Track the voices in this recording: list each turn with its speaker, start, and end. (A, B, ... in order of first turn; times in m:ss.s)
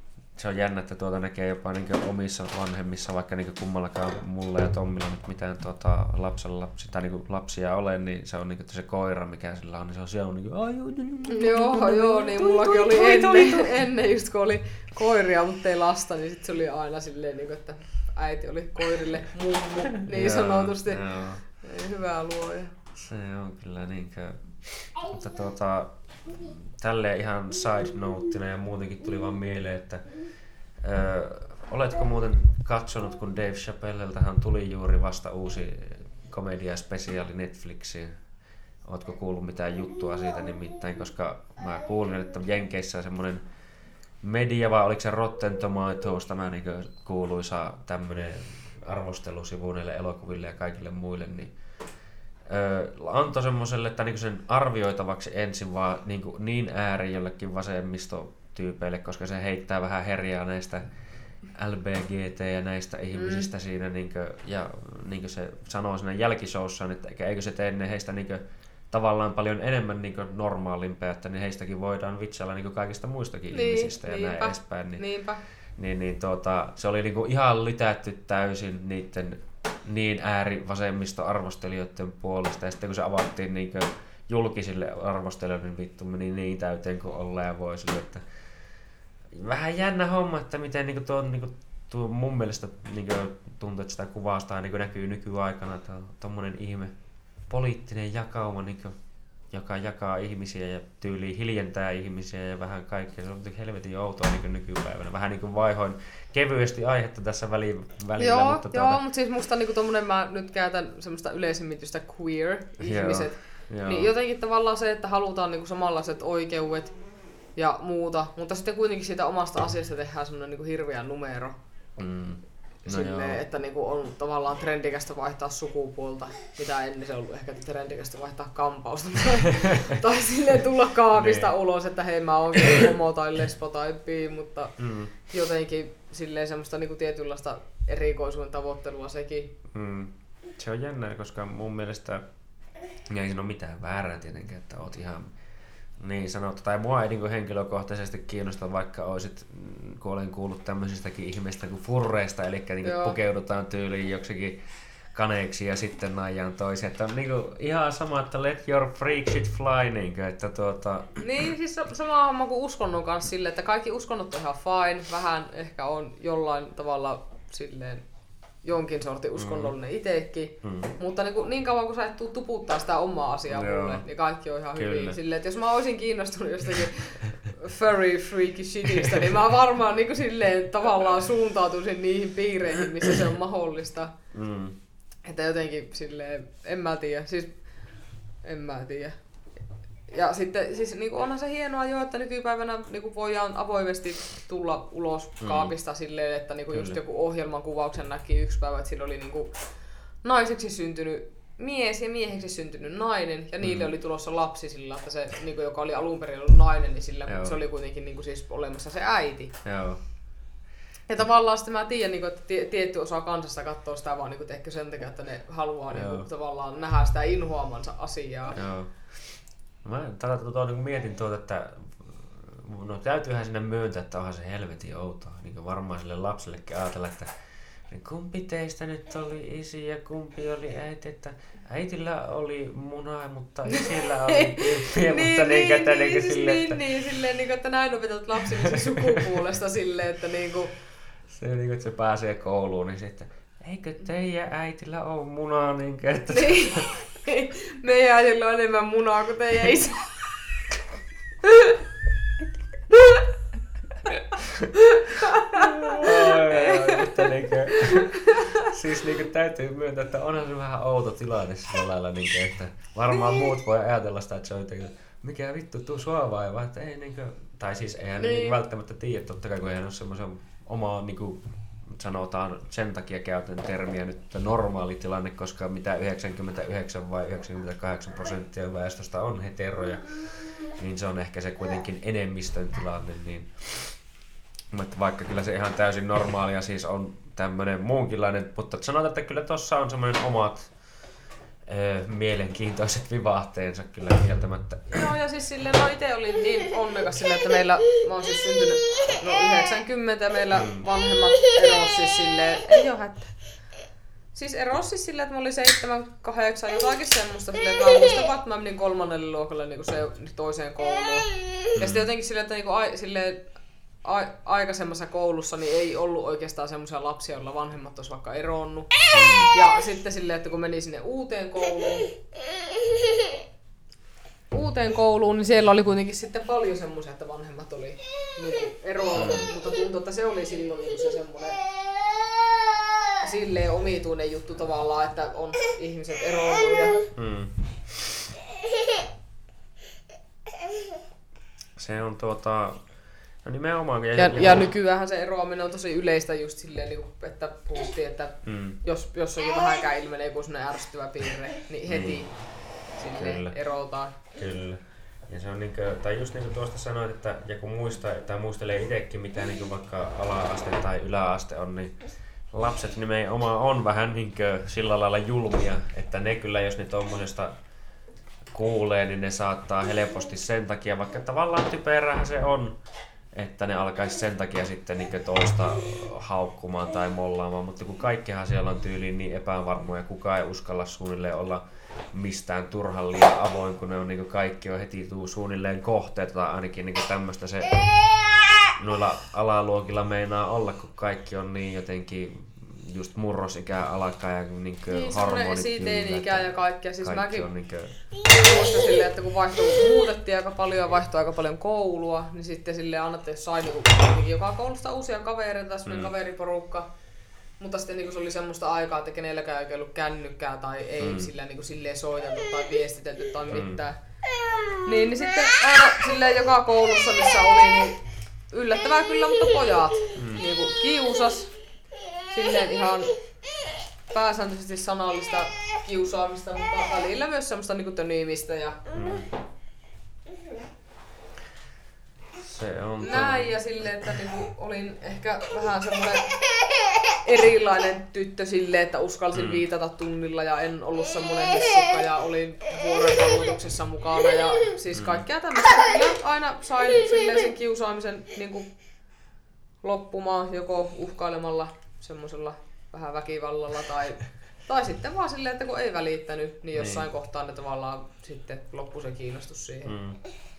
0:00.4-0:13.7 A
0:11.3-0:22.8 B
0:20.0-0:21.4 A
0:23.0-0:30.0 A
0:30.8-0:38.2 A
0:38.8-0:43.4 A
0:44.2-0:51.5 A
0:52.5-1:00.8 A
1:01.5-1:15.0 A
1:03.1-1:03.5 B
1:13.5-1:15.4 B
1:15.8-1:28.2 A
1:29.3-1:36.9 A
1:37.5-1:39.0 A
1:39.5-1:49.0 A
1:48.2-1:57.0 B
1:52.8-1:54.1 A
1:57.6-2:01.6 B
2:02.0-2:03.4 A
2:02.8-2:19.6 B
2:09.6-2:10.0 A
2:11.1-2:11.5 A
2:14.8-2:15.1 A
2:19.7-2:22.2 A
2:23.1-2:25.3 A
2:26.0-2:34.6 A
2:32.8-2:33.2 B
2:35.1-2:41.2 A
2:41.2-2:48.0 B
2:48.6-3:04.2 B
2:49.4-2:49.8 A
2:50.6-2:50.9 A
2:53.5-2:54.0 A
2:54.8-2:55.2 A
2:59.0-2:59.3 A
3:04.3-3:04.8 A
3:05.2-3:07.6 B
3:08.4-3:09.2 B
3:10.1-3:19.5 B
3:15.4-3:15.7 A
3:16.7-3:17.0 A
3:20.2-3:29.5 B
3:23.6-3:23.9 A
3:27.3-3:27.6 A
3:29.6-3:30.0 A
3:31.1-3:38.6 B
3:35.9-3:36.2 A
3:38.5-3:47.3 A
3:47.9-3:56.8 A
3:53.7-4:00.7 B
3:58.6-3:59.4 A
4:01.3-4:07.0 A
4:06.3-4:10.2 B
4:11.4-4:11.8 B
4:12.9-4:13.2 B
4:14.4-4:14.8 A
4:14.8-4:18.7 B
4:15.3-4:44.0 A
4:28.2-4:28.6 B
4:44.7-4:50.7 A
4:51.7-4:55.1 A
4:54.9-5:03.3 B
5:00.6-5:00.8 A
5:04.3-5:13.5 B
5:11.8-5:12.1 A
5:14.0-5:18.9 B
5:19.1-5:19.5 A
5:19.5-5:22.2 B
5:24.5-5:31.7 B
5:29.2-5:29.5 A
5:33.2-5:37.1 B
5:37.2-5:38.2 A
5:41.8-5:42.8 A
5:43.4-5:44.7 A
5:44.2-5:52.3 B
5:48.4-5:48.8 A
5:51.9-5:52.3 A
5:53.0-5:54.2 B
5:53.1-5:53.6 A
5:54.3-6:02.0 A
6:02.5-6:07.5 A
6:08.5-6:12.8 A
6:13.4-6:28.0 A
6:28.8-6:38.0 A
6:34.9-6:37.5 B
6:38.2-6:46.9 B
6:45.9-6:46.1 A
6:47.6-6:54.0 B
6:51.0-6:51.3 A
6:53.5-6:53.8 A
6:54.8-7:01.5 B
7:00.2-7:00.4 A
7:02.3-7:03.1 B
7:04.1-7:08.9 B
7:08.9-7:09.3 A
7:12.4-7:13.5 A
7:13.0-7:16.4 B
7:17.1-7:28.7 B
7:19.3-7:19.6 A
7:24.9-7:25.2 A
7:29.8-7:40.0 B
7:36.8-7:37.1 A
7:39.9-7:40.2 A